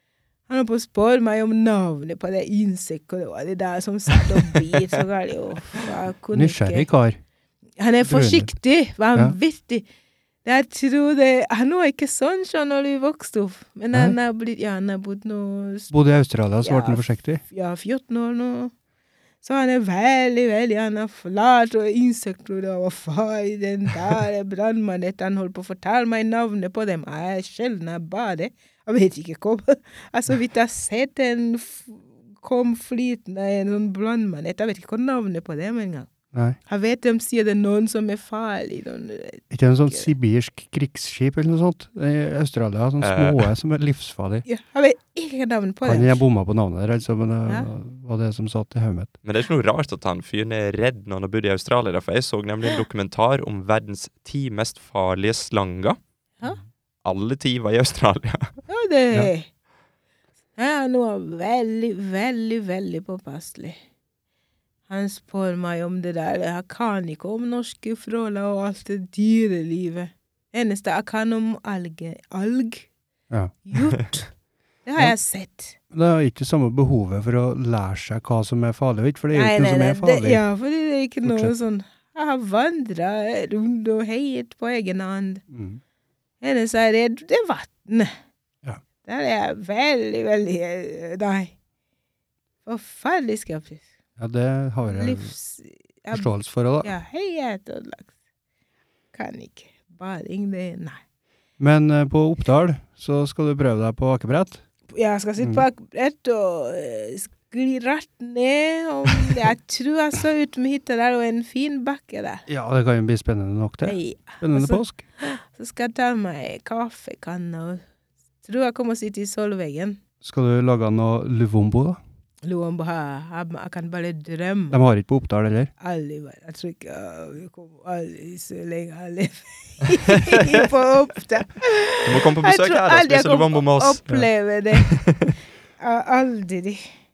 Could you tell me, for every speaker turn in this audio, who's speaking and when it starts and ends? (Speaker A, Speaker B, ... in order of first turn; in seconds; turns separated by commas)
Speaker A: 0.5-6.9, Speaker B: 6.3-7.2, Speaker A: 7.8-9.8, Speaker B: 8.1-8.5, Speaker A: 10.4-15.9, Speaker B: 15.9-17.4, Speaker A: 16.6-18.7, Speaker A: 19.4-36.1, Speaker B: 36.3-36.6, Speaker A: 36.6-40.1, Speaker B: 39.5-44.4, Speaker C: 43.0-43.4, Speaker A: 44.5-46.2, Speaker B: 45.8-49.1, Speaker C: 49.2-56.0, Speaker C: 57.0-58.6, Speaker A: 58.7-59.5, Speaker A: 60.5-63.8, Speaker A: 64.9-72.9, Speaker A: 73.7-74.3, Speaker A: 74.8-75.8, Speaker B: 75.9-80.4, Speaker A: 79.3-85.4, Speaker B: 81.2-81.5, Speaker B: 85.5-85.8, Speaker A: 86.4-88.1, Speaker A: 89.0-91.5, Speaker A: 92.6-93.8, Speaker B: 94.2-95.3, Speaker A: 94.8-96.3, Speaker B: 96.1-96.9, Speaker A: 96.8-98.1, Speaker A: 99.1-101.0, Speaker B: 101.6-104.6, Speaker A: 104.9-112.4, Speaker B: 105.4-105.7, Speaker B: 112.5-115.0, Speaker A: 113.8-117.8, Speaker A: 118.4-120.0, Speaker B: 120.2-122.0, Speaker A: 122.4-124.8, Speaker B: 124.7-125.7, Speaker A: 125.8-134.9, Speaker C: 130.1-130.6, Speaker C: 132.1-134.0, Speaker C: 134.7-135.3, Speaker A: 135.8-136.9